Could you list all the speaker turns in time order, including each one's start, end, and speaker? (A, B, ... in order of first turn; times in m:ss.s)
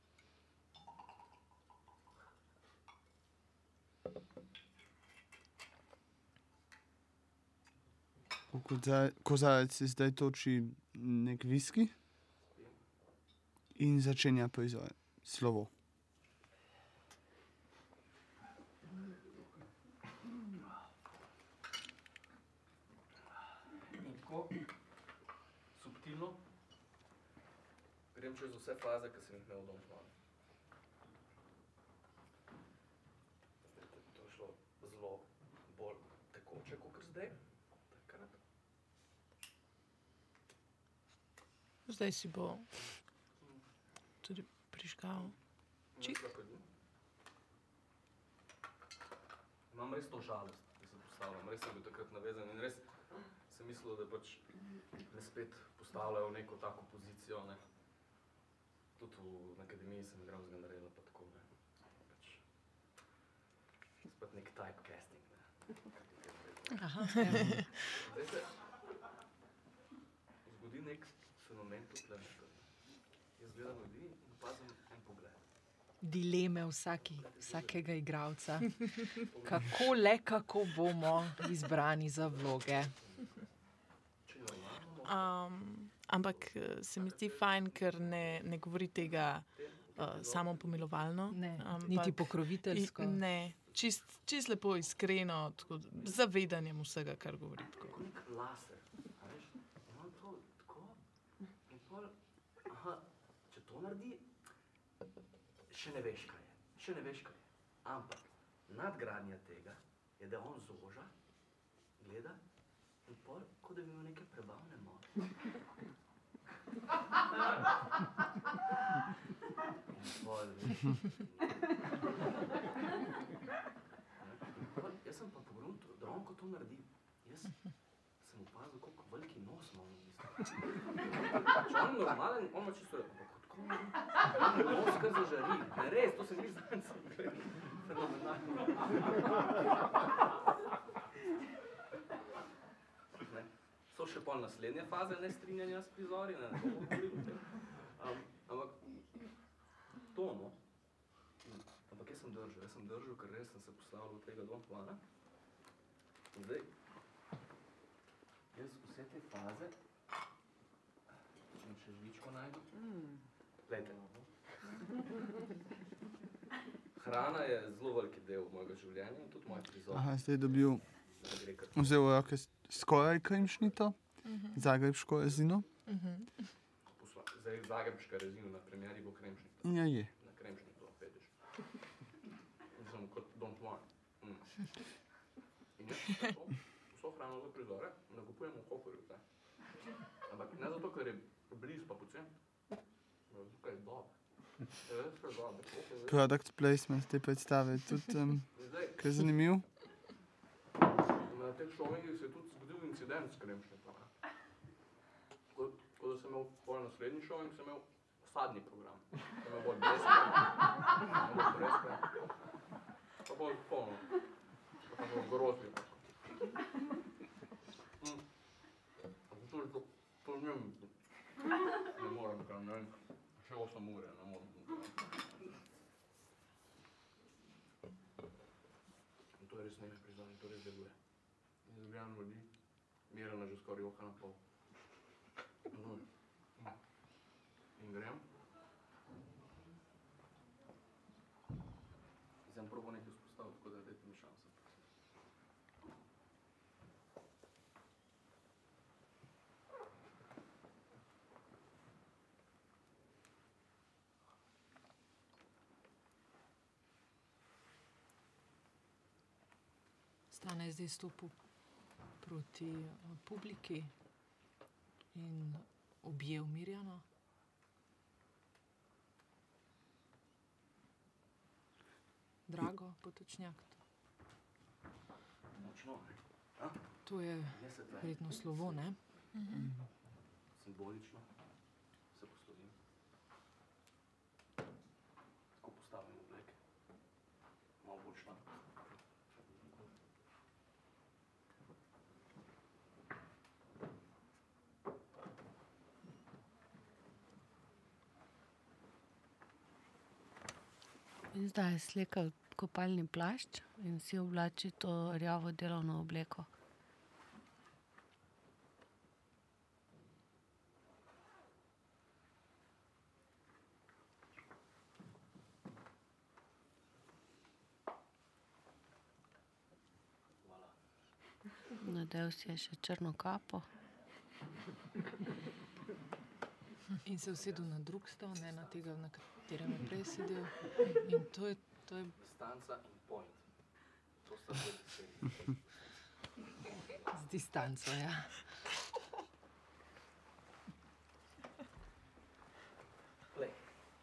0:08.5-0:11.9 A
0:12.5-0:12.8 B
0:13.7-0:15.7 A
0:23.9-0:24.6 B
0:25.7-0:26.4 B
0:28.1-0:30.1 B
0:33.6-0:37.4 B
0:37.9-0:38.4 B
0:41.8-0:42.7 C
0:42.8-0:43.6 B
0:44.2-0:45.3 C
0:45.9-0:46.6 B
0:49.7-0:52.8 B
0:53.4-0:54.4 B
0:55.1-0:57.6 B
0:59.0-1:01.4 B
1:02.0-1:02.4 B
1:04.0-1:08.6 B
1:06.8-1:07.7 D
1:07.3-1:07.7 C
1:10.4-1:12.7 B
1:13.4-1:15.4 B
1:16.0-1:22.9 D
1:17.0-1:17.9 B
1:19.3-1:19.7 B
1:22.9-1:23.4 B
1:24.2-1:25.3 B
1:25.0-1:38.0 C
1:26.2-1:28.5 B
1:29.5-1:31.0 B
1:31.3-1:33.2 D
1:37.8-1:41.0 B
1:41.6-1:44.3 B
1:45.7-1:51.1 B
1:52.0-1:52.4 B
1:53.0-1:55.3 B
1:59.9-2:01.8 B
2:04.2-2:07.6 B
2:08.2-2:10.6 B
2:11.5-2:19.6 B
2:23.2-2:29.0 B
2:30.1-2:30.6 B
2:31.4-2:35.0 B
2:36.3-2:36.7 B
2:38.5-2:39.7 B
2:41.5-2:42.7 B
2:43.6-2:44.9 B
2:46.9-2:50.3 B
2:49.9-2:50.8 A
2:51.2-2:51.9 B
2:51.7-2:55.6 A
2:54.3-2:54.6 C
2:55.9-2:56.3 C
2:56.9-3:01.3 B
2:59.6-3:00.1 A
3:02.7-3:04.6 B
3:05.8-3:09.2 B
3:10.3-3:12.3 B
3:13.3-3:14.1 B
3:14.7-3:16.2 B
3:16.1-3:19.6 A
3:18.5-3:19.0 B
3:21.3-3:24.1 B
3:25.5-3:32.1 B
3:33.2-3:34.2 B
3:34.8-3:36.0 B
3:39.3-3:40.9 B
3:41.9-3:45.0 B
3:49.4-3:50.9 B
3:51.6-3:52.5 B
3:53.1-3:54.4 B
3:55.7-3:56.0 B
3:57.8-3:58.2 B
4:02.4-4:04.8 B
4:20.3-4:21.3 D
4:22.2-4:23.9 D
4:25.1-4:27.0 D
4:32.5-4:33.8 D
4:35.6-4:36.8 B
4:37.0-4:39.0 D
4:37.5-4:38.9 B
4:39.3-4:39.7 C
4:40.6-4:41.3 B
4:42.1-4:42.7 B
4:45.6-4:46.6 B
4:47.8-4:48.4 B
5:01.3-5:06.5 E
5:20.4-5:20.7 B
5:21.8-5:23.6 E
5:27.0-5:32.1 D
5:27.4-5:27.7 B
5:28.3-5:28.9 B
5:32.2-5:33.4 B
5:34.2-5:37.2 B
5:37.1-5:38.5 D
5:43.3-5:43.6 B